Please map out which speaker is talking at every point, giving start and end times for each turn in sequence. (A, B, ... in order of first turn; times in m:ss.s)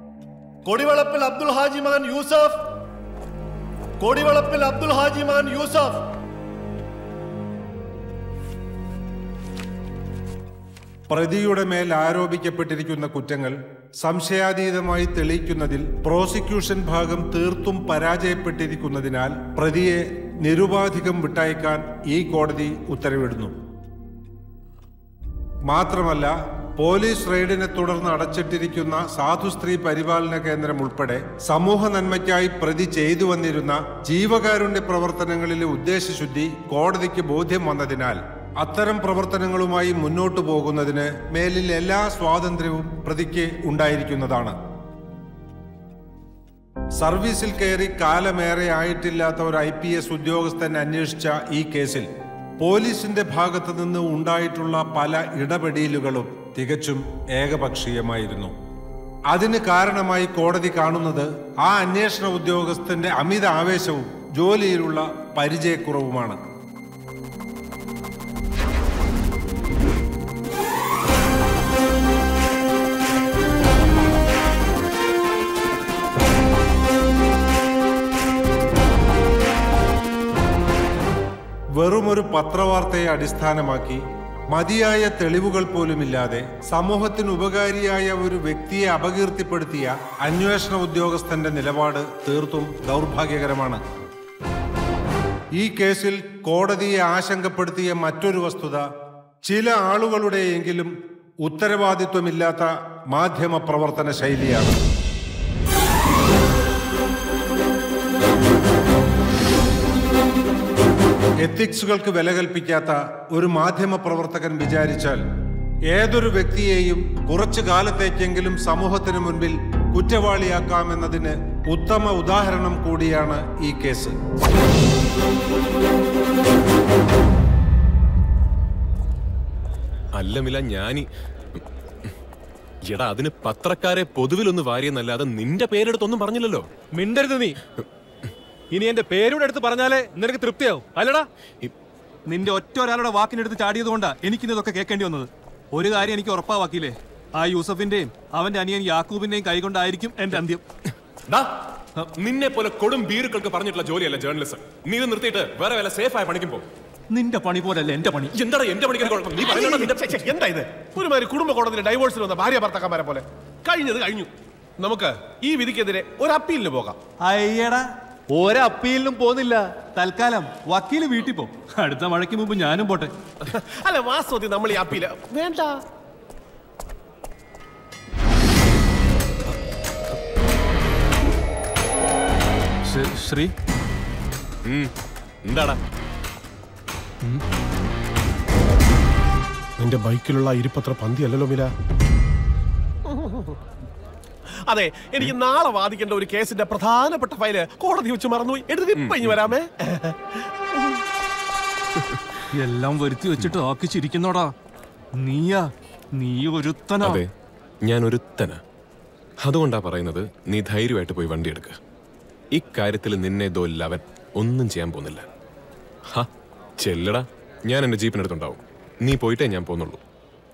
0:00.6-0:02.6 A
0:04.0-0:06.0 A
0:11.1-0:23.5 B
0:25.7-0:44.6 B
0:47.0-0:52.1 B
0:52.6-0:58.5 B
0:59.3-1:06.4 B
1:21.8-1:33.8 B
1:35.6-1:38.8 B
1:39.4-1:40.9 B
1:41.4-1:44.8 B
1:51.4-1:55.2 B
1:55.9-2:04.2 B
2:10.2-2:11.1 C
2:12.8-2:16.7 C
2:16.9-2:17.6 D
2:18.7-2:21.3 D
2:22.3-2:30.6 D
2:31.3-2:36.6 C
2:37.1-2:38.3 D
2:38.3-2:40.3 C
2:39.2-2:47.0 E
2:47.2-2:53.1 D
2:53.4-2:55.8 E
3:02.8-3:03.5 D
3:04.6-3:04.9 C
3:05.4-3:05.8 C
3:09.8-3:11.7 E
3:13.0-3:13.6 E
3:14.5-3:21.0 E
3:19.0-3:19.5 C
3:22.5-3:24.5 D
3:25.2-3:27.2 D
3:27.0-3:27.3 C
3:27.8-3:28.6 C
3:29.4-3:31.8 C
3:32.5-3:35.3 C
3:36.8-3:40.0 C